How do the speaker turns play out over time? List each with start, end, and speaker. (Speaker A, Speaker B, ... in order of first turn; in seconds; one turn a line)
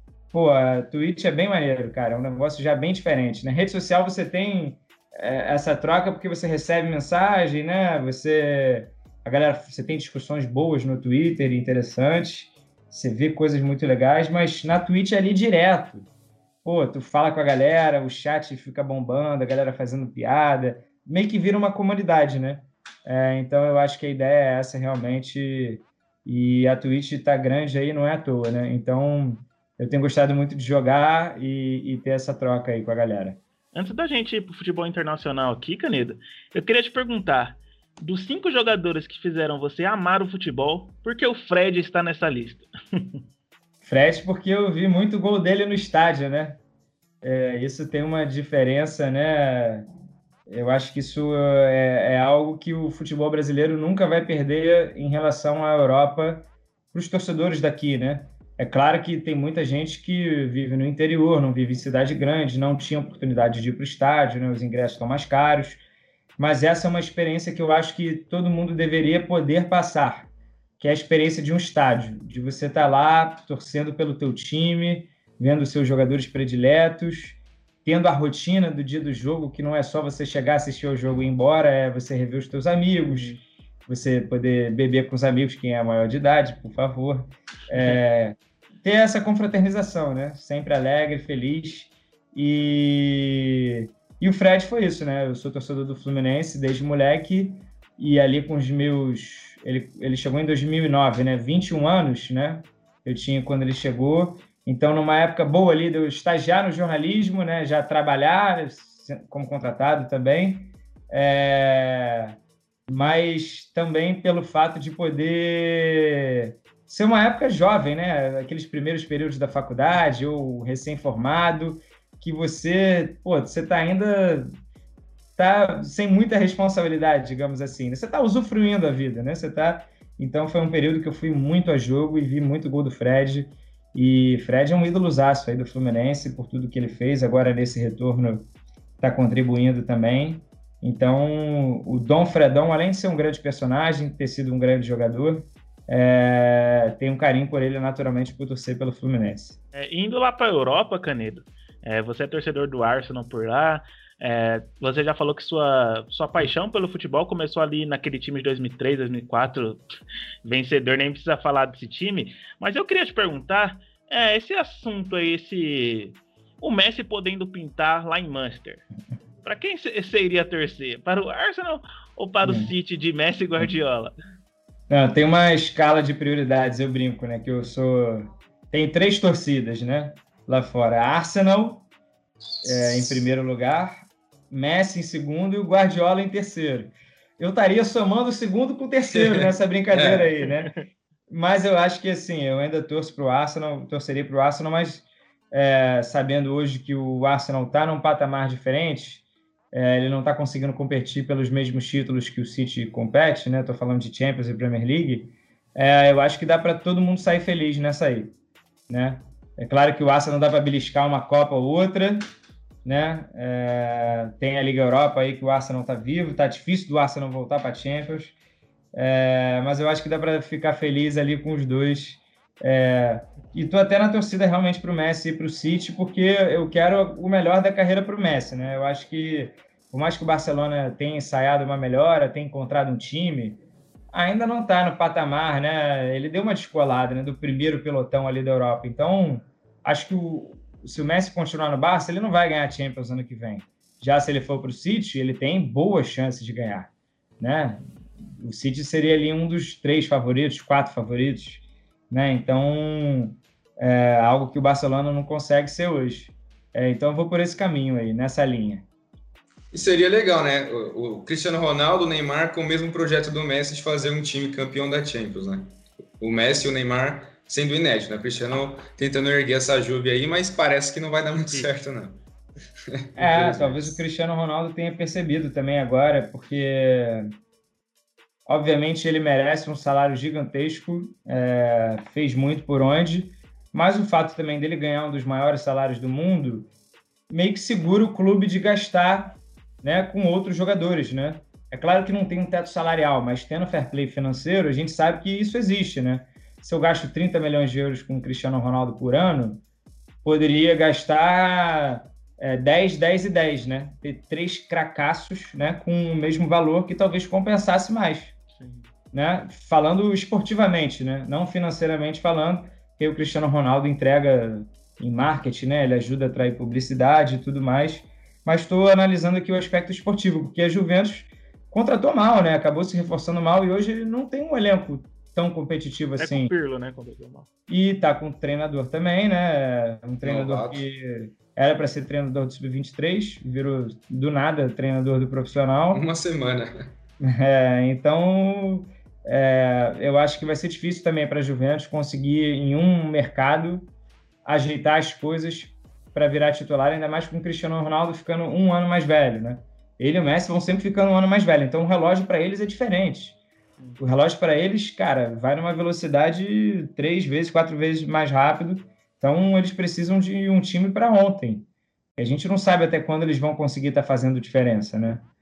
Speaker A: 0.3-16.1
Speaker A: 16.6-33.4
Speaker B: 33.7-43.0
Speaker A: 43.8-46.6
Speaker A: 47.2-49.9
Speaker A: 50.5-65.8
Speaker A: 66.4-83.3
Speaker B: 83.0-83.4
Speaker A: 83.9-112.3
Speaker A: 112.9-124.5
Speaker A: 125.3-138.5
Speaker A: 139.0-149.6
Speaker B: 149.7-159.8
Speaker B: 160.4-168.8
Speaker B: 169.4-174.1
Speaker A: 172.4-172.7
Speaker A: 174.9-181.9
Speaker A: 182.6-190.7
Speaker C: 189.1-190.3
Speaker A: 191.3-208.3
Speaker A: 208.9-212.3
Speaker A: 212.8-218.3
Speaker A: 218.9-247.8
Speaker A: 248.4-258.9
Speaker C: 259.7-272.2
Speaker C: 272.9-273.9
Speaker A: 273.1-277.3
Speaker A: 278.5-286.7
Speaker A: 287.3-299.6
Speaker A: 300.2-308.3
Speaker B: 308.5-308.9
Speaker A: 309.1-326.5
Speaker B: 326.2-327.5
Speaker A: 327.7-336.0
Speaker C: 330.2-330.8
Speaker C: 335.9-336.9
Speaker A: 337.2-343.9
Speaker A: 344.4-353.4
Speaker A: 354.0-365.2